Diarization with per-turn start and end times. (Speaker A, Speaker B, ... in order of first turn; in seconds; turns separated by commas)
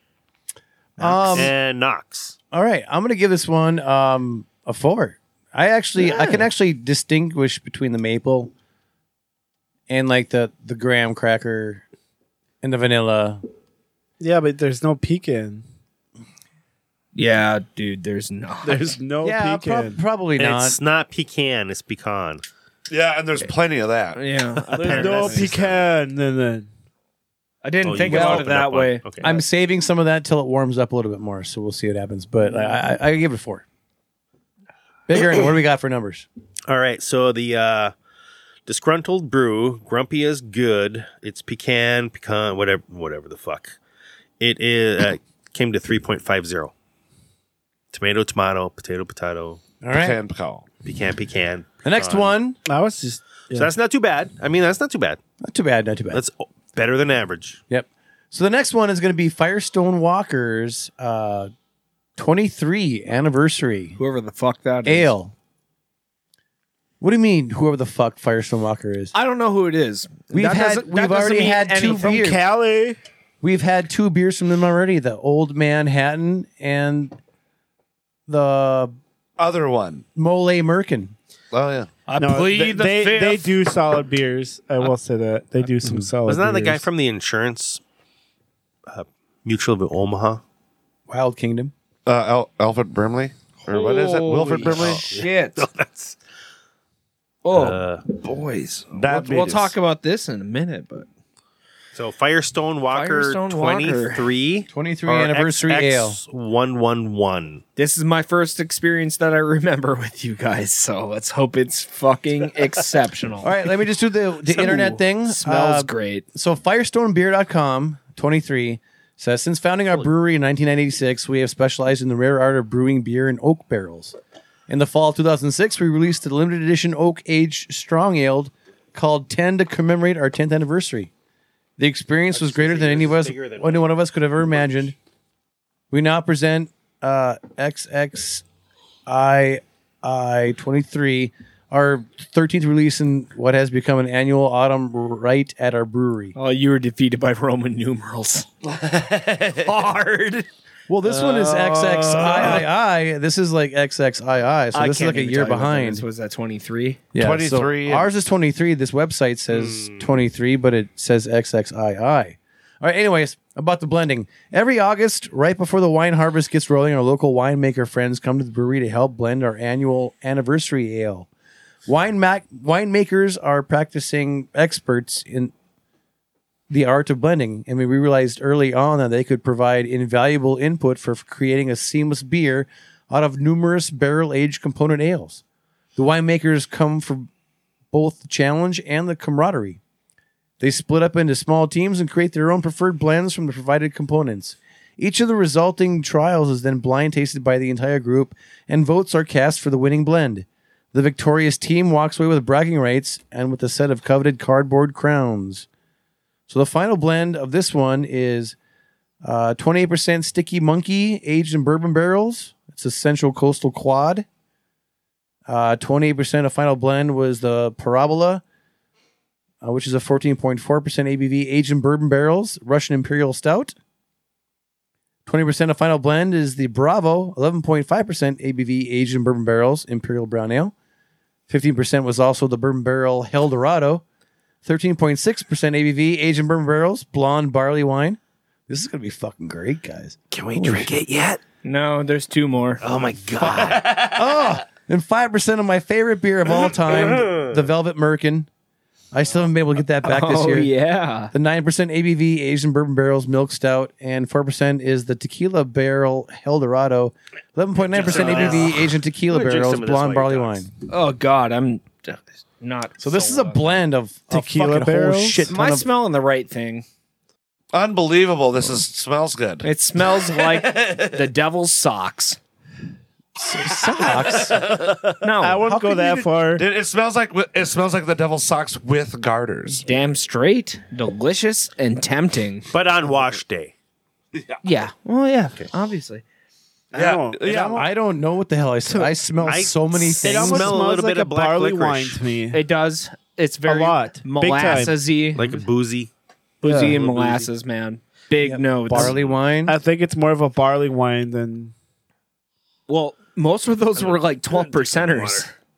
Speaker A: 1.0-1.6, Speaker B: 1.0-2.4, Speaker C: 1.1-1.5, Speaker A: 2.5-8.5, Speaker C: 6.0-6.4, Speaker A: 9.9-11.8, Speaker A: 12.6-13.4, Speaker D: 14.2-15.6, Speaker C: 17.1-19.0, Speaker D: 18.6-20.0, Speaker A: 19.2-20.8, Speaker B: 20.4-22.4, Speaker E: 22.9-24.2, Speaker C: 24.1-25.5, Speaker D: 24.7-26.7, Speaker E: 24.8-25.8, Speaker B: 24.9-25.4, Speaker C: 27.6-29.4, Speaker B: 27.9-29.3, Speaker A: 28.0-28.5, Speaker A: 29.2-33.6, Speaker A: 35.1-36.3, Speaker B: 36.7-37.9, Speaker B: 38.7-43.8, Speaker B: 44.4-46.7, Speaker B: 47.9-49.6, Speaker A: 49.8-50.2, Speaker E: 49.9-50.7, Speaker B: 50.8-52.4, Speaker A: 51.8-52.6, Speaker D: 52.7-53.7, Speaker B: 53.5-55.2, Speaker A: 55.4-56.2, Speaker B: 56.1-57.6, Speaker A: 57.7-61.5, Speaker A: 62.2-64.0, Speaker C: 64.0-65.1, Speaker A: 64.8-65.3, Speaker A: 67.0-69.1, Speaker C: 69.1-72.2, Speaker A: 70.3-72.4, Speaker D: 71.9-73.0, Speaker A: 73.4-77.2, Speaker A: 78.3-79.0, Speaker E: 79.4-80.0, Speaker A: 80.2-81.2, Speaker E: 81.5-81.9, Speaker C: 82.1-83.6, Speaker D: 82.2-86.8, Speaker B: 86.3-87.8, Speaker B: 88.9-90.4, Speaker A: 91.1-91.7, Speaker E: 92.1-95.1, Speaker C: 93.7-95.7, Speaker B: 94.7-96.2, Speaker C: 97.4-101.1, Speaker B: 97.5-98.0, Speaker E: 98.9-99.8, Speaker B: 102.0-107.6, Speaker C: 102.9-104.3, Speaker A: 104.7-106.2, Speaker C: 107.8-113.5, Speaker A: 113.4-124.2, Speaker C: 115.2-116.2, Speaker A: 124.7-131.1, Speaker A: 131.8-134.9, Speaker B: 132.3-133.9, Speaker A: 135.9-138.4, Speaker A: 139.1-146.3, Speaker C: 146.3-150.5, Speaker E: 148.8-149.6, Speaker A: 150.9-156.0, Speaker C: 151.1-152.7, Speaker C: 154.7-157.0, Speaker A: 157.1-171.3, Speaker E: 157.2-158.1, Speaker B: 159.5-160.0, Speaker A: 171.9-175.5, Speaker A: 176.7-185.4, Speaker A: 186.0-187.3, Speaker A: 187.9-189.8, Speaker A: 190.6-205.7, Speaker A: 206.5-208.6, Speaker A: 209.2-214.3, Speaker A: 215.5-218.4, Speaker A: 219.6-223.7, Speaker A: 225.3-230.7, Speaker A: 231.5-234.0, Speaker A: 234.6-240.9, Speaker B: 240.3-241.4, Speaker C: 241.6-242.8, Speaker B: 242.8-244.2, Speaker A: 243.4-248.5, Speaker B: 246.7-247.6, Speaker A: 249.1-250.7, Speaker C: 250.0-251.3, Speaker A: 251.3-260.7, Speaker B: 257.9-260.6, Speaker C: 258.0-258.7, Speaker C: 260.9-263.8, Speaker A: 263.0-265.9, Speaker D: 264.3-265.6, Speaker C: 265.5-266.9, Speaker E: 267.7-271.2, Speaker C: 269.6-272.4, Speaker A: 273.4-274.7, Speaker E: 274.0-274.9, Speaker C: 275.2-275.6, Speaker D: 275.4-276.6, Speaker A: 275.6-276.4, Speaker E: 276.6-279.9, Speaker C: 279.9-282.7, Speaker B: 282.7-283.7, Speaker C: 284.6-286.2, Speaker D: 286.9-287.7, Speaker E: 286.9-287.9, Speaker A: 287.5-290.8, Speaker B: 289.4-292.2, Speaker D: 290.2-292.6, Speaker C: 292.5-295.6, Speaker D: 293.6-295.0, Speaker B: 295.4-296.1, Speaker D: 296.6-297.2, Speaker C: 296.6-299.2, Speaker B: 296.9-297.4, Speaker A: 298.4-299.8, Speaker B: 298.9-299.4, Speaker D: 299.7-301.7, Speaker C: 302.9-305.5, Speaker B: 304.0-305.5